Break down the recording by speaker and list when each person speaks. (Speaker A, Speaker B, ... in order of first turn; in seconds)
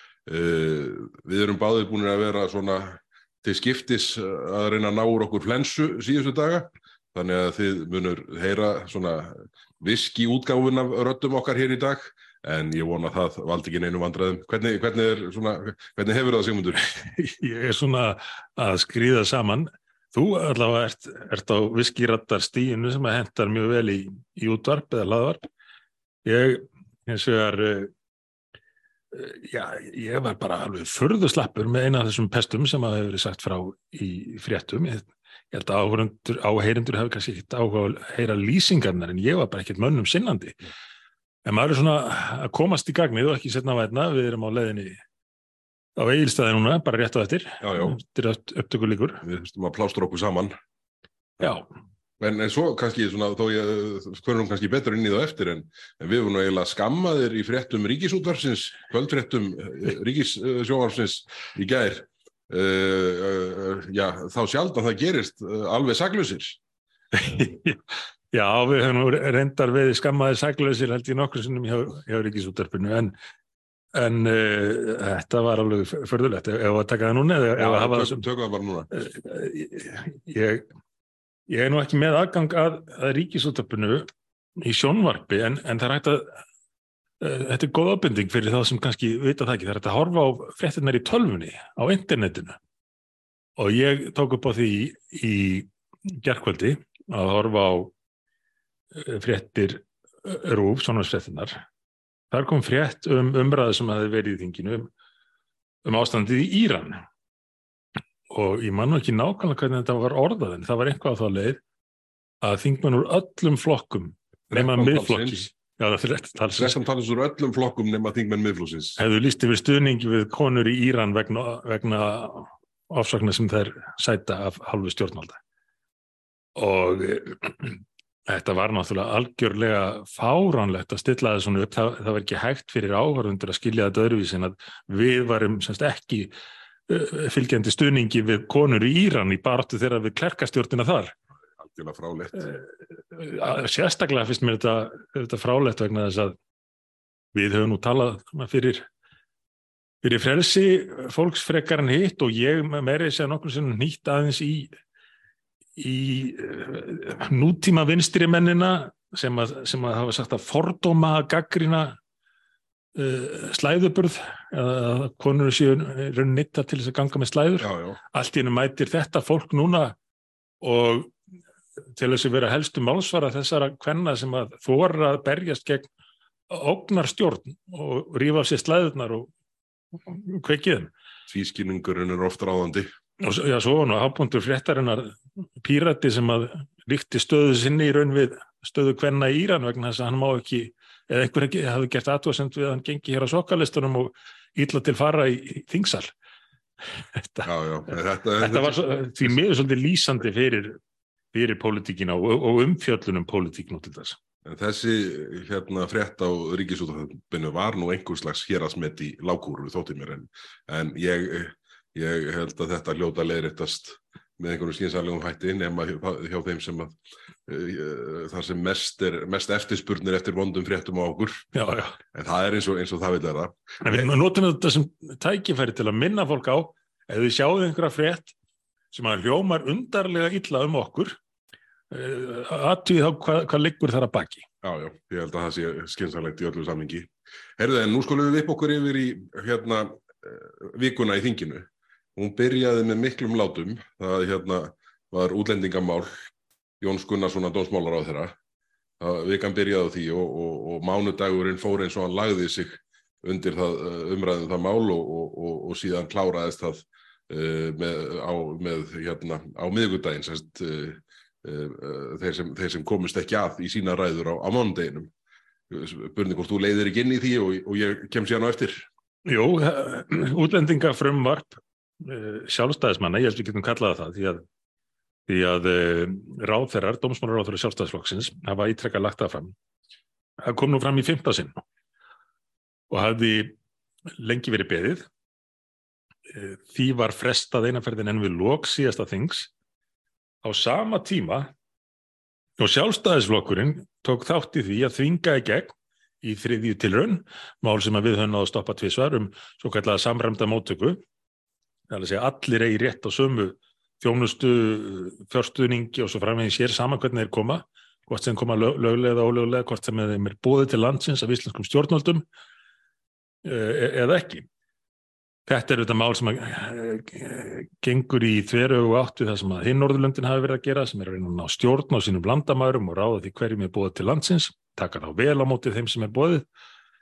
Speaker A: 0.3-16.9, 47.6-48.0, 49.2-50.6, 52.2-66.6, 77.6-78.9, 114.5-115.5, 116.5-119.0, 141.6-142.5, 167.6-168.0, 181.3-182.9, 197.4-198.9, 204.4-216.9, 217.5-221.5, 222.1-224.1, 234.6-246.3, 246.8-248.3, 249.0-265.1, 265.7-268.9
Speaker B: 16.8-25.4, 26.2-27.9, 29.1-40.6, 41.5-45.0, 46.0-49.2, 51.4-51.7, 67.1-73.2, 73.9-78.2, 78.9-80.7, 81.5-86.4, 87.2-92.6, 93.6-97.9, 98.9-101.6, 102.3-104.9, 105.8-107.0, 108.3-111.6, 112.4-116.8, 119.0-125.4, 126.6-136.3, 136.9-141.1, 142.4-146.4, 147.3-148.8, 150.0-154.7, 155.8-162.0, 162.9-170.0, 170.6-171.2, 171.9-175.9, 176.5-179.3, 179.9-180.9, 183.2-196.1, 196.9-197.5, 198.4-200.8, 201.3-204.2, 221.5-222.0, 223.8-228.3, 228.9-231.2, 231.9-234.5, 269.2-274.4, 275.3-279.6, 280.4-281.6, 282.9-283.6, 284.2-285.1, 286.3-289.5, 290.4-291.5, 292.6-301.0, 301.9-312.2, 313.4-314.5, 315.5-326.5